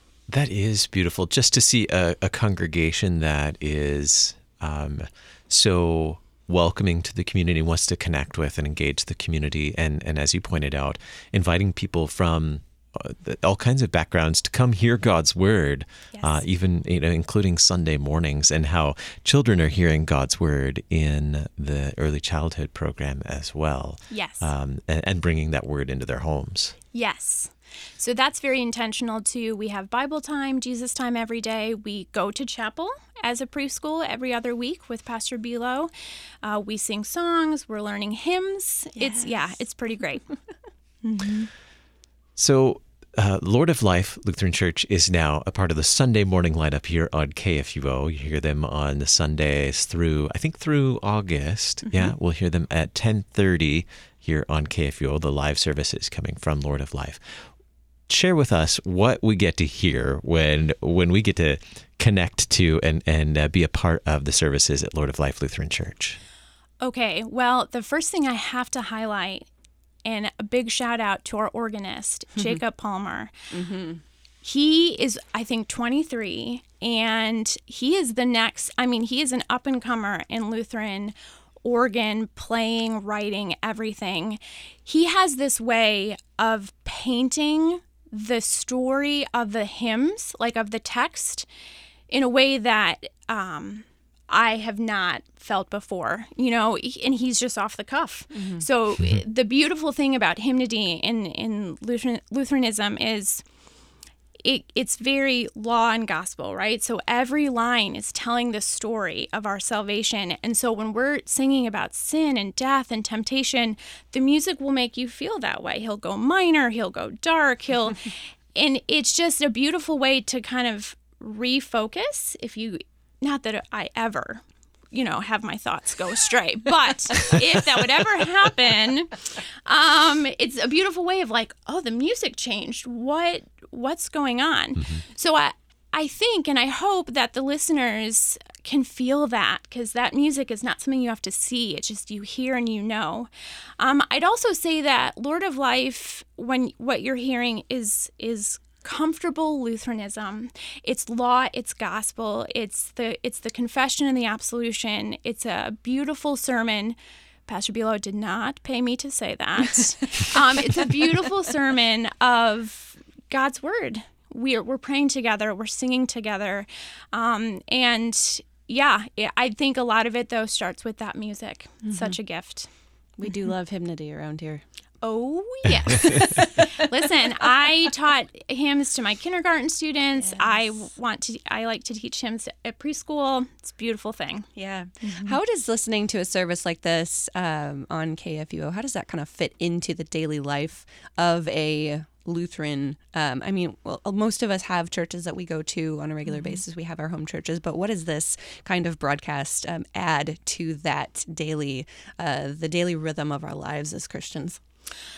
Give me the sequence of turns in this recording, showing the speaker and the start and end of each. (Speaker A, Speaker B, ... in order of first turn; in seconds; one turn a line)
Speaker A: 0.3-26.8
Speaker B: 16.1-16.4
Speaker B: 24.1-24.5
Speaker B: 26.9-35.9
Speaker B: 36.4-40.2
Speaker C: 39.0-39.5
Speaker B: 41.0-41.5
Speaker A: 42.4-57.2
Speaker A: 58.1-66.2
Speaker B: 66.8-69.5
Speaker B: 70.0-73.3
Speaker C: 73.5-74.0
Speaker B: 74.4-91.5
Speaker B: 92.1-103.4
Speaker C: 98.3-98.7
Speaker B: 104.4-172.7
Speaker A: 134.8-135.0
Speaker C: 171.8-172.1
Speaker C: 173.2-174.6
Speaker B: 175.0-184.5
Speaker C: 175.9-176.6
Speaker C: 180.2-180.8
Speaker C: 184.6-204.6
Speaker B: 185.0-185.4
Speaker B: 196.3-196.6